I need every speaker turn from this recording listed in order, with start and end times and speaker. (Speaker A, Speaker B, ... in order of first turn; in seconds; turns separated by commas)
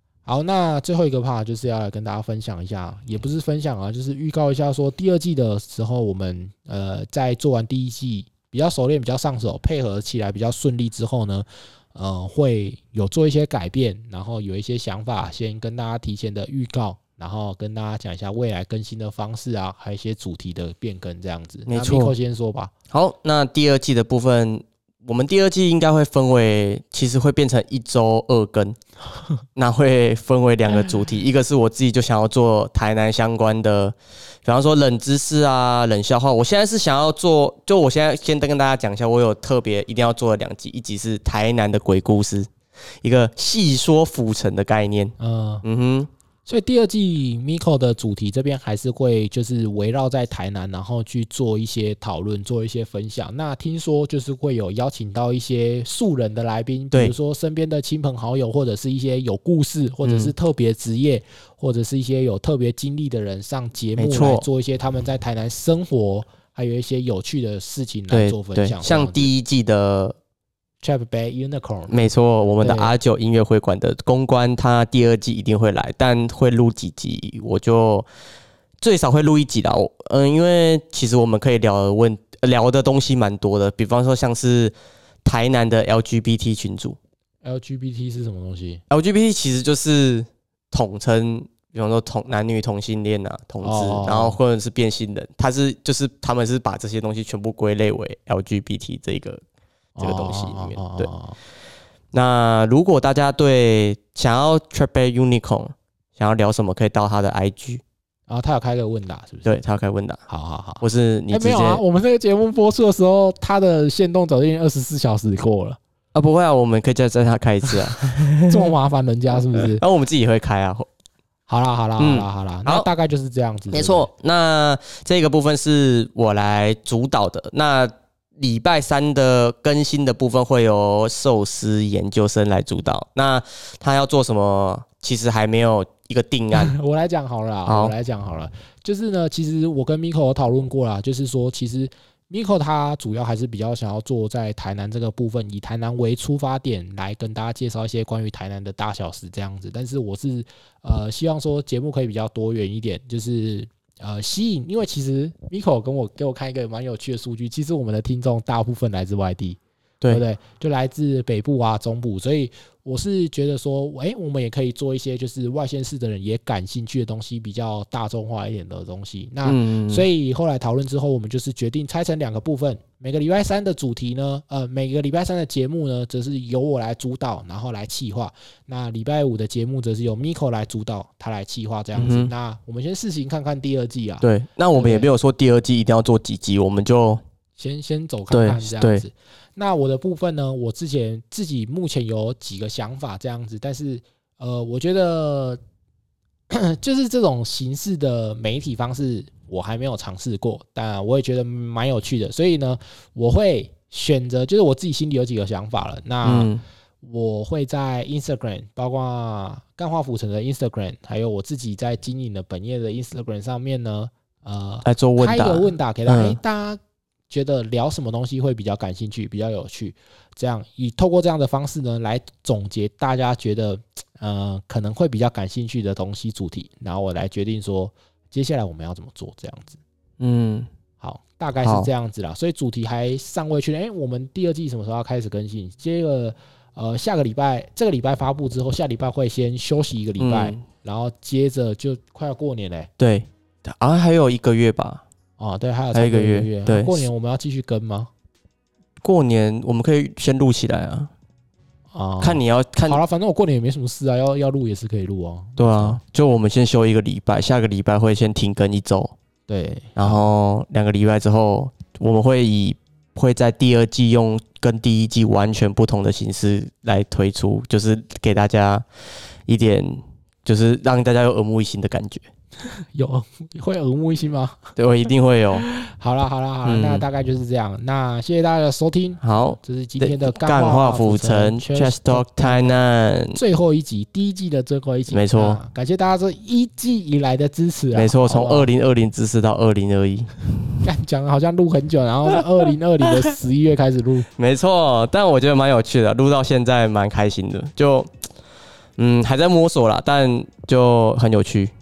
Speaker A: 0.2-22.7, Speaker B: 21.7-22.1, Speaker B: 22.9-28.8, Speaker B: 29.5-42.5, Speaker B: 43.0-46.1, Speaker A: 45.2-45.6, Speaker A: 46.5-69.3, Speaker B: 60.0-60.3, Speaker B: 64.0-64.5, Speaker B: 68.1-70.2, Speaker A: 70.8-71.9, Speaker B: 71.9-78.1, Speaker A: 72.6-72.9, Speaker B: 78.8-84.7, Speaker B: 85.2-87.0, Speaker A: 87.4-88.8, Speaker B: 88.9-99.4, Speaker A: 93.6-94.4, Speaker A: 100.0-101.3, Speaker B: 100.0-101.1, Speaker B: 102.1-107.8, Speaker A: 108.3-109.6, Speaker B: 109.4-110.2, Speaker A: 110.3-115.8, Speaker B: 110.8-111.8, Speaker B: 116.1-118.6, Speaker A: 118.4-119.8, Speaker B: 119.4-120.9, Speaker A: 121.5-124.1, Speaker B: 122.0-122.9, Speaker B: 123.7-136.7, Speaker A: 136.6-185.1, Speaker B: 137.7-137.9, Speaker B: 169.4-170.1, Speaker B: 181.9-182.3, Speaker B: 184.2-187.2, Speaker A: 187.6-195.6, Speaker B: 188.3-189.0, Speaker A: 196.5-206.5, Speaker B: 206.2-206.6, Speaker A: 207.0-229.8, Speaker B: 214.8-216.4, Speaker B: 230.2-230.7, Speaker A: 231.0-242.9, Speaker B: 231.6-231.9, Speaker B: 240.2-240.6, Speaker B: 243.0-245.0, Speaker A: 245.4-248.1, Speaker B: 245.9-247.1, Speaker B: 249.0-251.1, Speaker A: 251.9-256.0, Speaker B: 252.2-253.0, Speaker B: 255.6-259.1, Speaker A: 259.5-260.2, Speaker B: 260.0-268.8, Speaker B: 269.5-272.2, Speaker A: 272.7-274.6, Speaker B: 274.8-275.7, Speaker A: 275.6-282.7, Speaker B: 276.6-277.0, Speaker B: 279.2-283.4, Speaker A: 283.3-288.7, Speaker B: 285.1-285.6, Speaker B: 287.9-290.8, Speaker A: 290.8-294.3, Speaker B: 294.4-298.1, Speaker B: 299.0-301.7